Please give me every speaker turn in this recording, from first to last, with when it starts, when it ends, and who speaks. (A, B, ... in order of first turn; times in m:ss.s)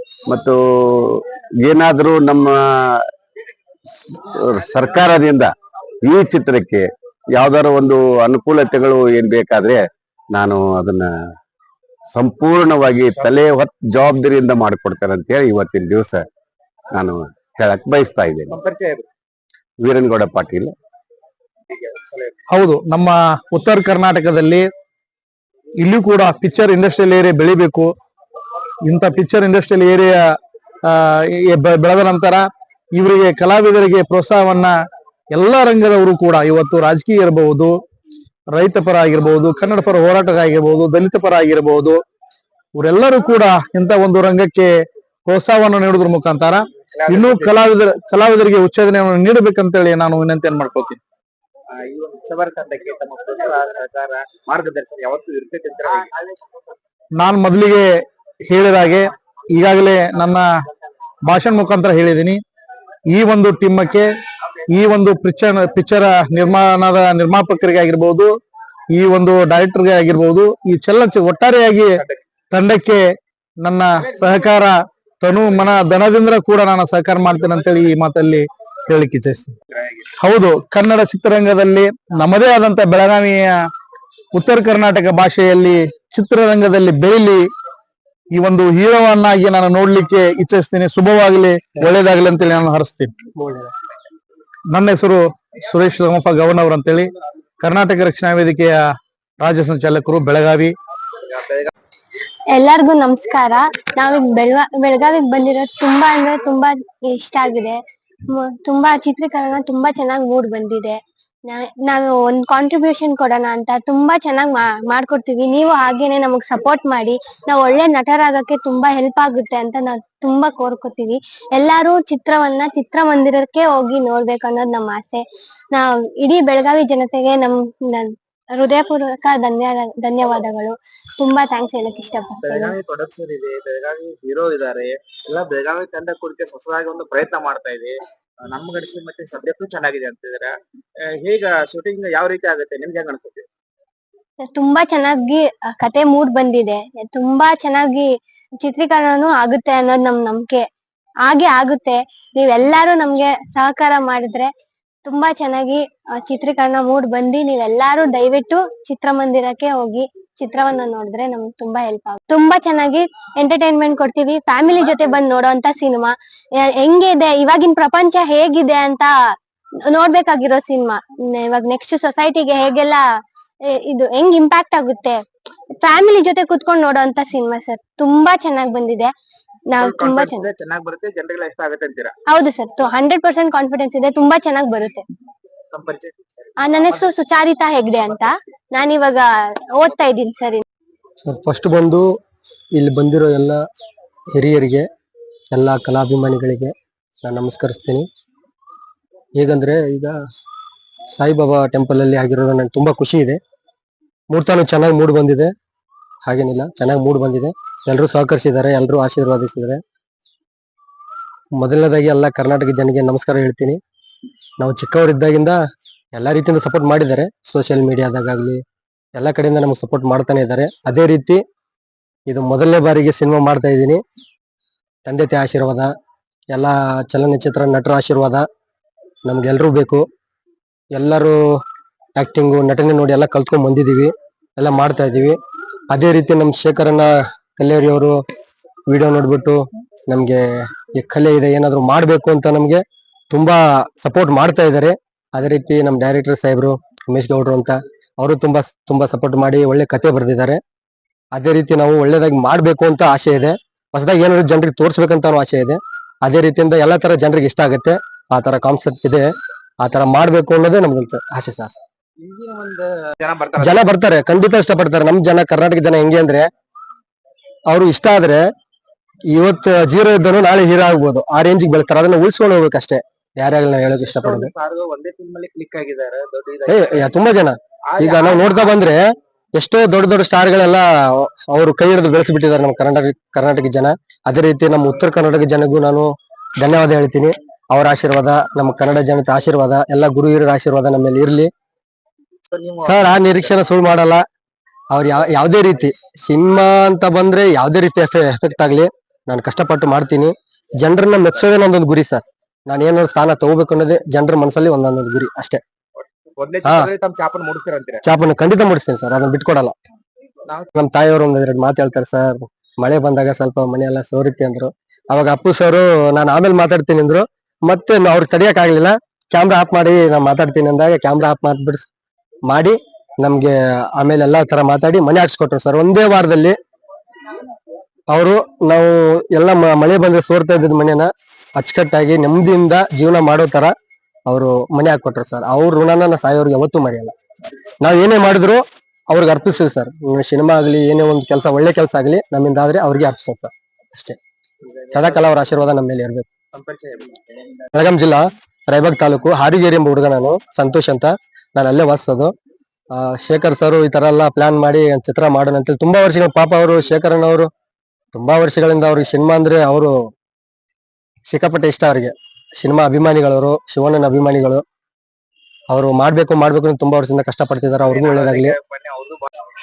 0:00.3-0:00.6 A
0:01.2-0:02.6 A
0:04.1-0:05.5 A
0:06.0-0:09.8 A
0:10.3-0:11.1 A
0:12.1-0:16.3 A
0:17.0-0:18.6 A
0:18.5-0:19.1 B
0:19.8-0:20.7 A
0:21.7-0:22.3 B
0:22.5-0:24.7 C
0:25.8-0:27.9 C
0:28.9-0:30.2 C
0:30.9-0:34.7 C
0:35.3-0:37.8 C
0:38.5-0:42.0 C
0:42.8-0:44.7 C
0:45.3-0:51.0 C
0:47.0-0:47.6 B
0:51.7-0:56.1 B
0:57.2-0:57.9 C
0:58.5-1:00.4 C
1:01.2-1:02.4 C
1:03.1-1:04.1 C
1:04.7-1:08.3 C
1:08.9-1:13.0 C
1:13.6-1:19.6 C
1:20.2-1:23.5 C
1:24.3-1:27.5 C
1:28.3-1:33.1 C
1:33.4-1:33.7 D
1:34.7-1:37.1 C
1:37.6-1:38.8 C
1:39.4-1:40.8 C
1:41.3-1:41.7 B
1:42.5-1:47.8 E
1:48.4-1:51.0 E
1:51.5-2:05.2 E
2:05.7-2:12.7 E
2:12.4-2:18.0 B
2:18.5-2:23.4 B
2:24.4-2:28.1 E
2:28.6-2:30.6 E
2:31.3-2:34.5 E
2:35.1-2:49.1 E
2:49.9-2:53.0 E
2:53.8-2:55.2 E
2:55.8-2:59.1 E
2:59.8-3:00.4 E
2:59.8-3:02.2 B
3:02.3-3:05.0 E
3:05.7-3:07.1 B
3:06.6-3:10.6 E
3:11.2-3:12.1 D
3:12.8-3:13.6 D
3:14.4-3:14.9 D
3:15.5-3:18.1 D
3:19.4-3:20.1 D
3:21.2-3:23.4 D
3:24.3-3:25.5 D
3:26.3-3:29.8 D
3:31.6-3:33.8 D
3:34.6-3:35.6 D
3:36.2-3:38.6 D
3:39.2-3:41.4 D
3:42.3-3:44.0 D
3:45.1-3:45.9 D
3:46.5-3:48.4 D
3:49.3-3:50.0 D
3:51.0-3:51.4 D
3:52.2-3:55.4 D
3:55.9-3:58.2 D
3:58.9-4:10.6 D
4:11.4-4:19.3 D
4:19.8-4:21.7 D
4:22.2-4:23.9 B
4:23.6-4:26.5 D
4:27.7-4:28.5 D
4:29.3-4:34.5 D
4:34.0-4:37.2 B
4:36.7-4:39.0 D
4:37.9-4:38.9 B
4:39.6-4:46.1 D
4:46.6-4:51.5 D
4:52.5-4:53.7 B
4:52.8-4:54.2 D
4:54.9-5:05.6 D
5:06.0-5:08.0 B
5:08.1-5:09.7 D
5:10.8-5:21.9 D
5:22.5-5:26.6 D
5:28.1-5:33.7 D
5:34.3-5:37.1 D
5:37.8-5:44.2 D
5:44.7-5:45.7 B
5:44.9-5:46.2 D
5:46.5-5:47.2 B
5:47.8-5:52.3 D
5:53.0-5:57.5 D
5:58.1-5:59.9 D
6:01.3-6:04.6 D
6:05.7-6:08.5 D
6:07.8-6:09.2 B